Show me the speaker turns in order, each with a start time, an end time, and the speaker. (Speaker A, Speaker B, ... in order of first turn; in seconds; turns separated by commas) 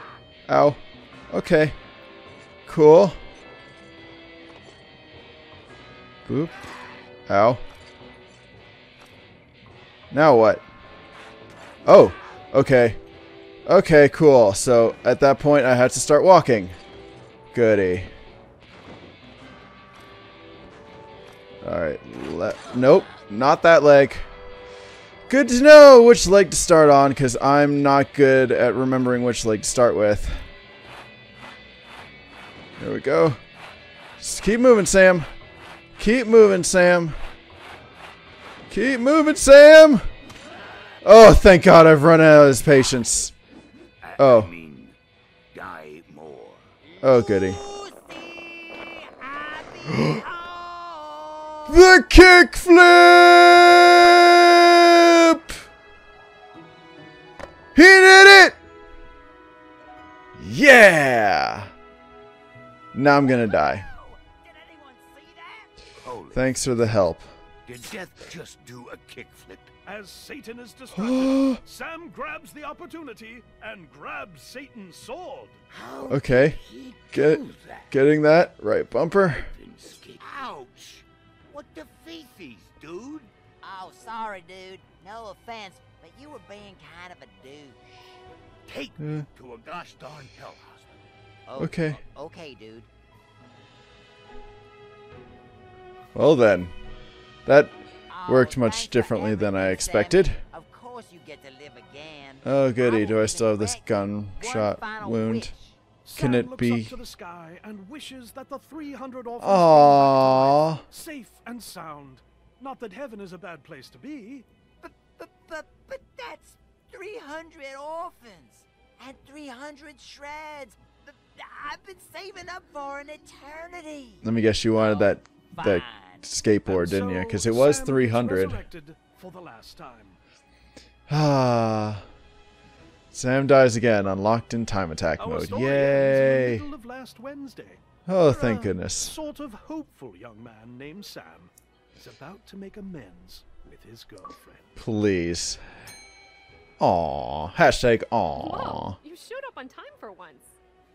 Speaker A: 0.5-1.8, Speaker A: 2.6-3.2, Speaker A: 6.2-6.5, Speaker A: 7.3-7.6, Speaker A: 10.1-10.6, Speaker A: 11.8-13.0, Speaker A: 13.7-16.7, Speaker A: 17.5-18.1, Speaker A: 21.6-24.2, Speaker A: 25.3-30.4, Speaker A: 32.8-33.4, Speaker A: 34.2-35.3, Speaker A: 36.0-37.2, Speaker A: 38.7-40.0, Speaker A: 41.0-43.3, Speaker B: 44.1-45.0, Speaker A: 44.2-44.5, Speaker B: 45.5-46.7, Speaker C: 47.0-51.8, Speaker A: 47.0-47.6, Speaker A: 51.7-55.6, Speaker A: 57.7-58.6, Speaker A: 60.4-61.7, Speaker A: 62.9-63.8, Speaker C: 63.2-65.8, Speaker B: 66.0-66.4, Speaker A: 66.3-67.3, Speaker B: 67.7-69.7, Speaker D: 69.8-75.6, Speaker A: 70.9-71.6, Speaker C: 75.7-76.9, Speaker A: 76.1-76.6, Speaker A: 77.1-79.5, Speaker B: 77.2-77.7, Speaker B: 79.5-83.3, Speaker C: 83.6-87.8, Speaker B: 88.7-90.9, Speaker A: 89.0-89.3, Speaker C: 91.5-92.9, Speaker A: 91.6-92.0, Speaker A: 96.1-96.7, Speaker A: 97.5-97.7, Speaker C: 98.1-105.8, Speaker A: 98.2-100.4, Speaker A: 102.4-105.5, Speaker D: 106.0-114.5, Speaker A: 106.1-106.9, Speaker A: 109.4-110.8, Speaker C: 114.8-126.3, Speaker A: 124.2-128.6, Speaker D: 126.7-130.2, Speaker A: 131.1-132.0, Speaker A: 133.1-136.6, Speaker D: 135.2-144.7, Speaker A: 138.1-139.1, Speaker A: 144.8-145.6, Speaker A: 146.8-149.0, Speaker E: 148.3-150.6